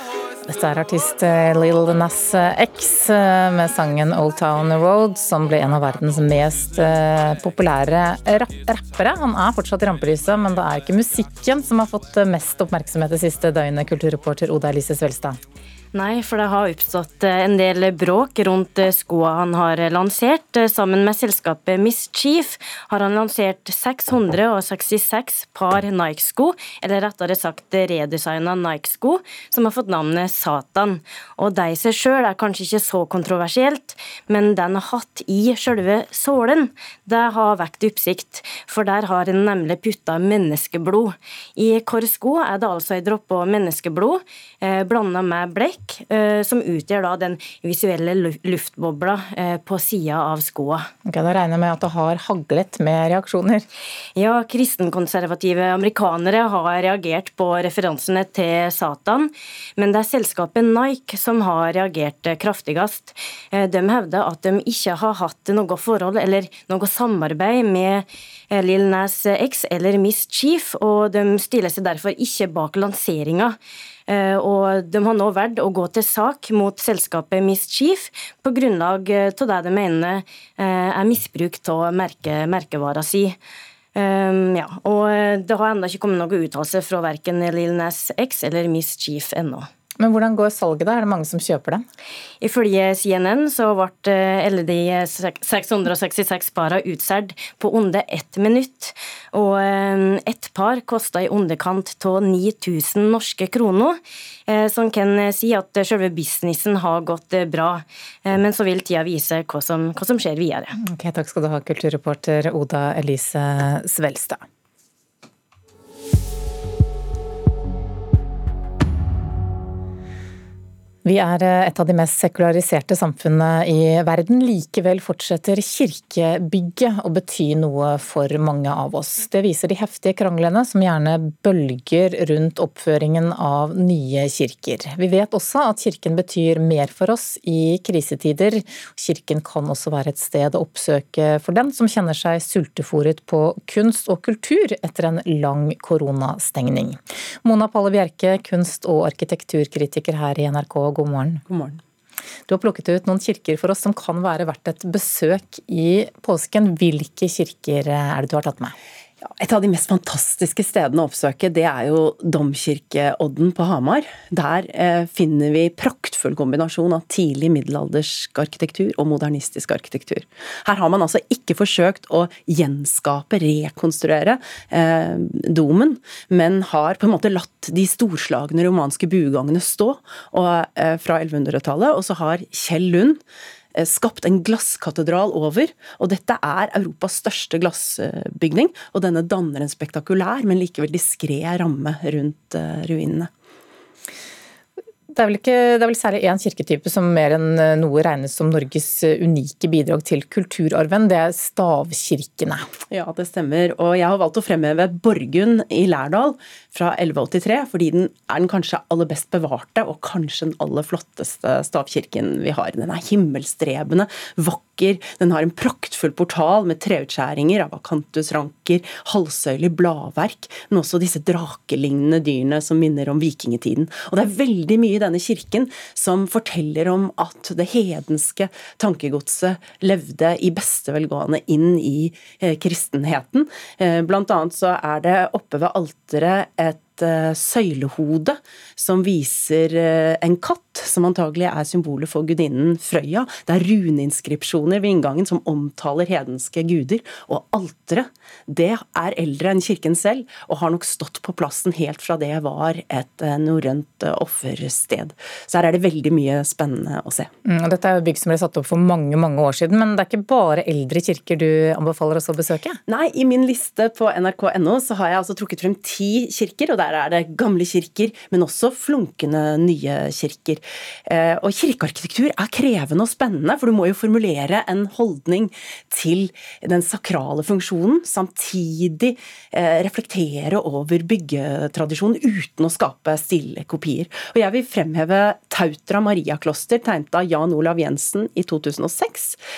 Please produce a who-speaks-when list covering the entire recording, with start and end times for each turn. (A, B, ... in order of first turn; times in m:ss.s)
0:00.4-0:15.4 A
0:15.9-0:50.8 B
0:51.0-0:53.6 A
0:54.2-1:13.6 B
1:14.1-1:23.4 B
1:23.9-1:29.7 B
1:30.0-1:31.8 A
1:32.4-1:44.0 B
1:44.5-1:50.7 B
1:50.8-1:54.4 A
2:01.0-2:31.4 A
2:31.5-2:31.8 C
2:32.5-2:38.7 A
2:39.2-3:03.2 C
3:03.7-3:13.3 C
3:15.1-3:22.6 A
3:22.9-4:17.3 C
4:17.4-4:22.8 A
4:22.9-4:49.4 C